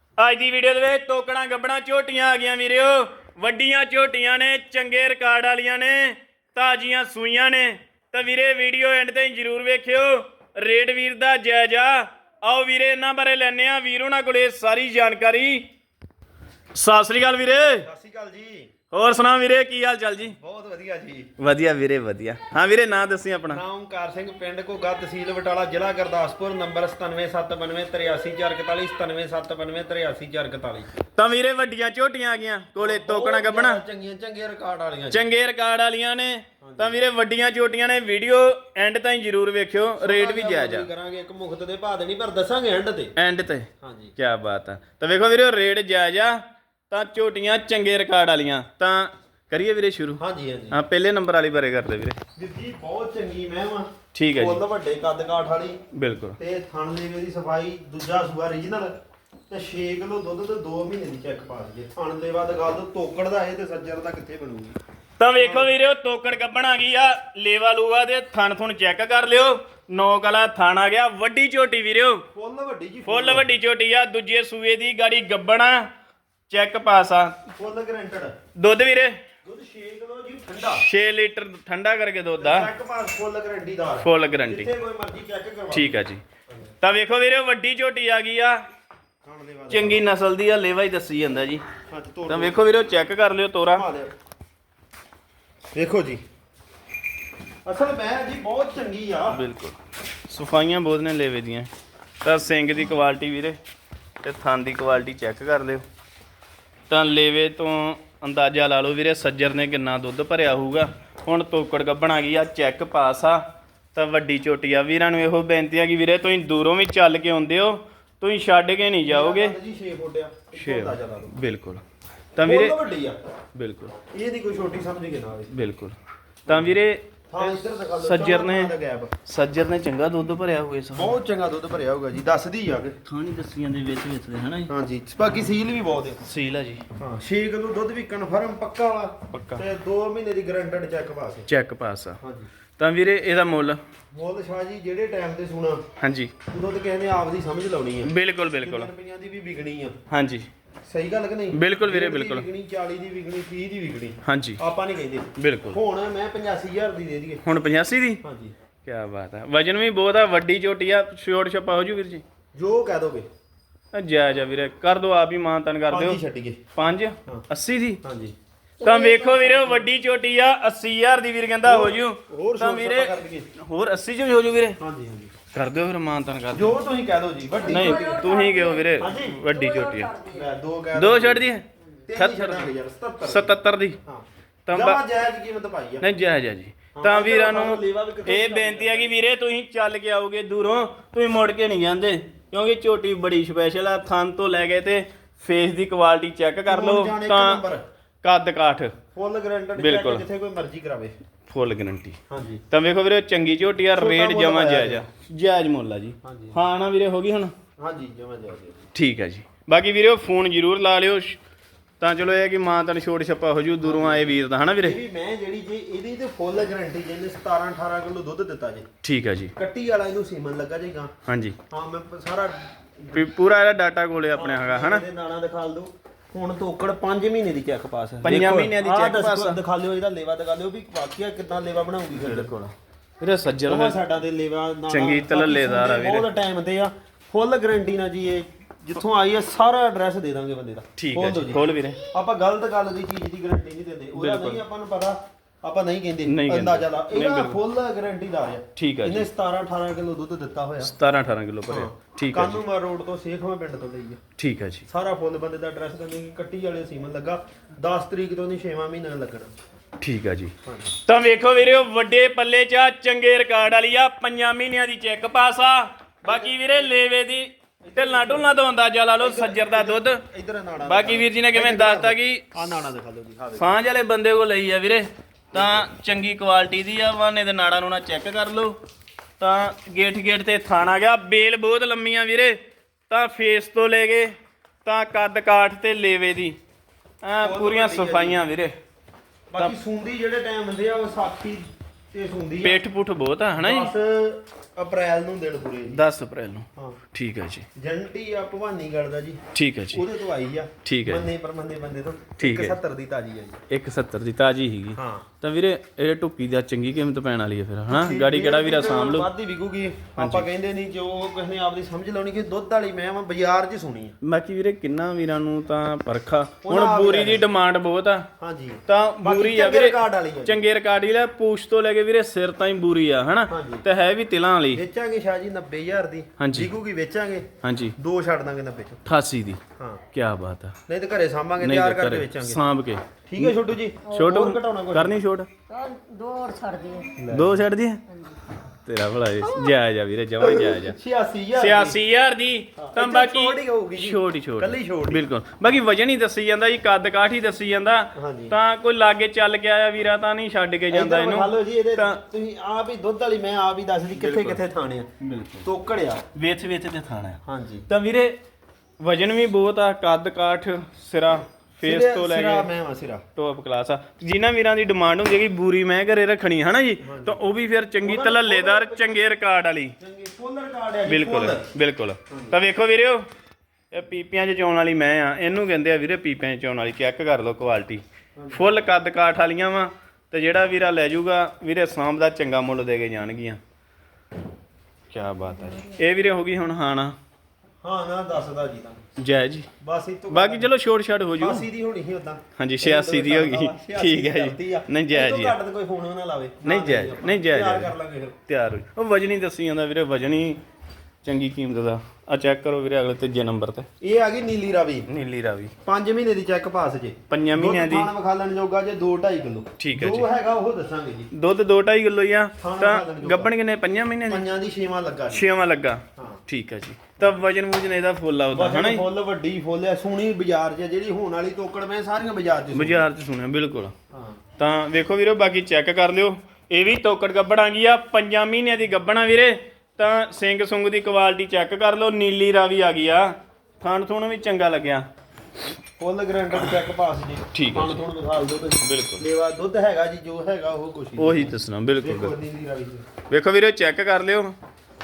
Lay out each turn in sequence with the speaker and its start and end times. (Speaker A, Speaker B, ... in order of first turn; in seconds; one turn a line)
Speaker A: 0.2-15.7
Speaker A: 16.8-17.9
Speaker B: 17.8-18.7
Speaker A: 18.9-20.4
Speaker B: 20.4-21.3
Speaker A: 21.4-23.6
Speaker B: 23.5-30.9
Speaker A: 31.1-33.8
Speaker B: 32.8-35.3
Speaker A: 35.1-40.9
Speaker B: 36.6-37.0
Speaker B: 40.0-43.1
Speaker A: 43.2-52.2
Speaker B: 43.8-44.1
Speaker B: 50.2-50.8
Speaker B: 52.4-55.8
Speaker A: 54.1-54.6
Speaker A: 55.9-56.4
Speaker B: 56.4-58.9
Speaker B: 59.5-64.8
Speaker A: 65.2-72.2
Speaker B: 65.4-65.7
Speaker B: 72.3-73.5
Speaker A: 73.0-75.9
Speaker A: 76.5-77.4
Speaker B: 77.6-78.3
Speaker A: 78.6-79.2
Speaker B: 79.5-80.8
Speaker A: 80.7-82.7
Speaker B: 82.4-86.0
Speaker A: 84.0-84.7
Speaker A: 85.7-86.2
Speaker A: 86.8-88.6
Speaker B: 89.2-90.0
Speaker A: 89.7-91.6
Speaker B: 91.9-92.6
Speaker A: 92.3-93.8
Speaker B: 93.7-94.1
Speaker B: 95.8-96.2
Speaker B: 97.7-99.4
Speaker A: 99.3-101.7
Speaker A: 102.2-103.6
Speaker A: 104.2-105.8
Speaker A: 106.9-113.4
Speaker A: 113.9-119.6
Speaker B: 119.1-121.3
Speaker A: 120.5-121.8
Speaker A: 122.3-122.8
Speaker B: 122.4-123.2
Speaker A: 123.5-124.0
Speaker B: 124.1-125.5
Speaker A: 125.5-126.0
Speaker A: 126.5-128.7
Speaker B: 127.3-129.1
Speaker A: 129.3-131.2
Speaker B: 130.9-133.0
Speaker A: 133.1-134.7
Speaker B: 134.7-136.2
Speaker A: 136.2-136.8
Speaker B: 137.0-141.5
Speaker A: 139.3-139.7
Speaker A: 141.5-142.2
Speaker B: 142.2-142.5
Speaker A: 142.8-143.8
Speaker B: 144.1-145.8
Speaker A: 146.0-146.3
Speaker B: 146.5-150.0
Speaker A: 148.1-148.9
Speaker A: 150.1-150.5
Speaker B: 150.8-157.4
Speaker A: 151.5-152.5
Speaker A: 154.2-154.6
Speaker A: 155.4-155.8
Speaker A: 157.4-158.2
Speaker B: 158.2-158.5
Speaker A: 158.8-162.2
Speaker B: 162.6-163.3
Speaker A: 163.9-166.2
Speaker B: 165.9-166.6
Speaker A: 166.8-168.0
Speaker B: 168.0-168.3
Speaker C: 168.8-169.8
Speaker A: 168.8-174.8
Speaker B: 171.6-173.5
Speaker B: 174.8-175.3
Speaker A: 175.5-176.8
Speaker B: 176.5-178.2
Speaker C: 177.7-178.8
Speaker A: 177.7-180.1
Speaker B: 179.0-179.4
Speaker C: 179.5-180.5
Speaker B: 180.3-181.5
Speaker A: 181.0-182.7
Speaker B: 182.1-186.1
Speaker A: 183.2-184.0
Speaker A: 184.7-185.0
Speaker A: 186.0-197.6
Speaker B: 187.0-189.2
Speaker B: 196.7-197.8
Speaker A: 198.2-199.0
Speaker B: 199.1-201.1
Speaker A: 199.8-200.2
Speaker A: 201.5-202.2
Speaker B: 202.3-202.6
Speaker A: 202.7-207.5
Speaker B: 203.9-205.0
Speaker B: 206.2-206.6
Speaker B: 207.8-208.9
Speaker A: 208.9-211.4
Speaker A: 212.0-215.0
Speaker B: 213.8-218.9
Speaker A: 219.0-219.5
Speaker B: 219.6-221.1
Speaker A: 221.3-221.6
Speaker B: 221.7-223.2
Speaker A: 223.1-225.0
Speaker B: 224.3-232.5
Speaker A: 228.2-229.6
Speaker A: 232.2-234.0
Speaker B: 233.7-250.9
Speaker A: 234.9-236.3
Speaker A: 241.0-242.0
Speaker A: 244.2-244.6
Speaker A: 246.3-247.6
Speaker A: 248.8-249.3
Speaker A: 250.8-252.6
Speaker B: 251.7-254.2
Speaker A: 254.4-254.9
Speaker B: 254.9-259.5
Speaker A: 260.0-270.2
Speaker B: 260.6-261.0
Speaker B: 266.2-266.9
Speaker B: 267.8-268.5
Speaker B: 269.2-273.7
Speaker A: 270.9-272.5
Speaker A: 273.6-278.8
Speaker B: 275.5-275.9
Speaker A: 279.4-282.6
Speaker A: 283.1-284.3
Speaker A: 284.9-286.6
Speaker A: 287.2-288.8
Speaker B: 287.4-288.4
Speaker B: 289.5-292.8
Speaker A: 292.6-293.9
Speaker B: 293.6-296.0
Speaker A: 295.9-297.7
Speaker B: 297.8-303.6
Speaker A: 299.5-300.0
Speaker A: 300.9-301.3
Speaker A: 302.4-302.8
Speaker A: 303.7-309.3
Speaker B: 304.9-305.3
Speaker B: 307.9-314.2
Speaker A: 310.2-310.5
Speaker A: 314.2-318.3
Speaker B: 316.6-317.5
Speaker B: 318.4-320.6
Speaker A: 318.9-324.8
Speaker B: 323.5-323.9
Speaker B: 324.7-327.5
Speaker A: 326.4-326.7
Speaker A: 327.6-328.0
Speaker B: 328.0-329.0
Speaker A: 329.1-329.6
Speaker B: 329.8-330.1
Speaker A: 330.1-330.8
Speaker B: 330.9-332.6
Speaker A: 331.6-333.5
Speaker B: 333.3-335.1
Speaker A: 334.1-335.5
Speaker C: 335.7-337.1
Speaker B: 337.2-337.6
Speaker A: 337.3-338.0
Speaker A: 338.8-341.0
Speaker B: 340.4-342.0
Speaker A: 341.6-352.2
Speaker B: 342.8-345.2
Speaker B: 348.1-348.6
Speaker B: 350.9-355.1
Speaker A: 354.2-354.6
Speaker A: 355.2-355.7
Speaker B: 355.6-356.2
Speaker A: 356.4-358.4
Speaker B: 357.5-357.9
Speaker A: 359.0-362.7
Speaker B: 361.8-363.2
Speaker A: 363.4-370.0
Speaker B: 367.0-367.4
Speaker B: 368.0-369.2
Speaker B: 370.0-371.7
Speaker A: 371.1-373.2
Speaker B: 372.3-372.6
Speaker A: 373.9-383.6
Speaker B: 378.4-378.7
Speaker A: 385.1-387.1
Speaker B: 387.8-389.0
Speaker A: 389.2-389.7
Speaker B: 389.8-390.7
Speaker A: 390.3-391.7
Speaker B: 391.4-398.4
Speaker A: 392.6-395.6
Speaker A: 396.6-397.9
Speaker A: 398.5-400.6
Speaker A: 401.2-403.9
Speaker B: 404.0-405.1
Speaker A: 405.1-405.7
Speaker B: 405.9-411.3
Speaker A: 407.3-408.1
Speaker A: 409.8-410.3
Speaker A: 411.3-414.5
Speaker B: 412.6-413.5
Speaker B: 414.3-415.4
Speaker A: 415.3-419.0
Speaker B: 418.5-423.1
Speaker A: 422.7-423.9
Speaker B: 424.1-424.4
Speaker A: 424.6-435.1
Speaker B: 436.0-443.1
Speaker A: 437.5-438.0
Speaker A: 438.8-439.2
Speaker A: 441.2-442.4
Speaker A: 443.3-444.6